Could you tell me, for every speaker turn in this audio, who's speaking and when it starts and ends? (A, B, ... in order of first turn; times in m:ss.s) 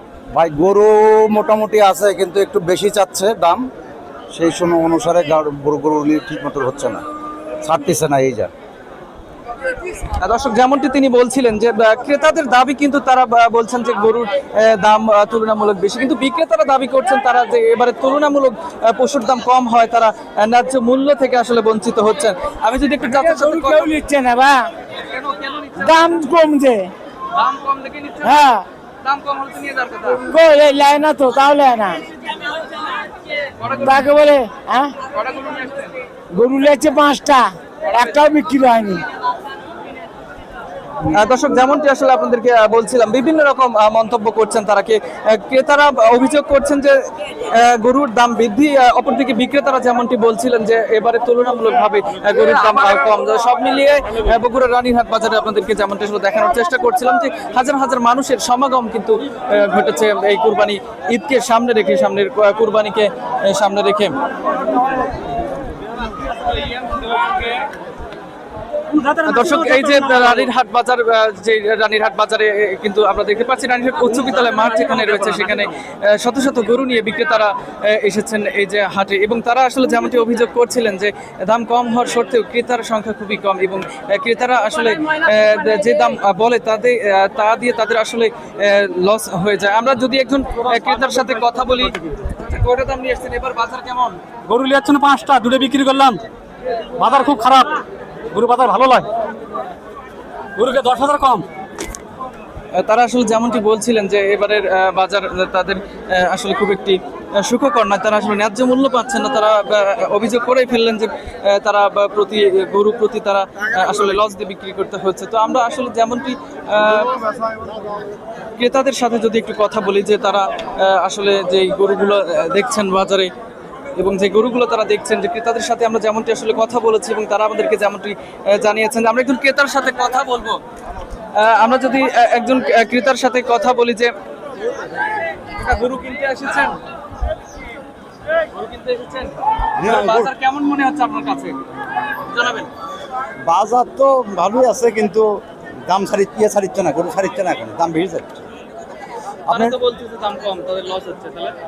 0:00.3-0:03.6 A
0:04.3-0:07.0 A
0:07.6-0:08.5 A
0:10.2-0:23.9 B
0:23.2-0:24.7 C
0:25.0-0:26.0 B
0:25.8-0:26.9 C
0:27.3-0:28.5 B
0:28.2-0:28.6 C
0:29.0-0:30.2 B
0:30.2-0:32.0 C
0:33.6-0:33.9 B
0:33.8-0:34.9 C
0:35.0-0:35.9 B
0:36.3-0:39.0 C
0:41.1-1:04.1 B
1:09.1-1:34.2 B
1:34.5-1:36.2 D
1:37.0-1:37.8 D
1:38.3-1:39.1 D
1:40.6-1:41.4 D
1:42.8-1:57.2 B
1:58.6-2:03.3 B
2:04.0-2:10.6 B
2:11.4-2:14.1 B
2:15.5-2:16.8 B
2:18.5-2:21.6 B
2:19.8-2:20.3 A
2:22.3-2:22.7 B
2:23.4-2:28.4 A
2:29.5-2:29.8 A
2:29.5-2:31.5 B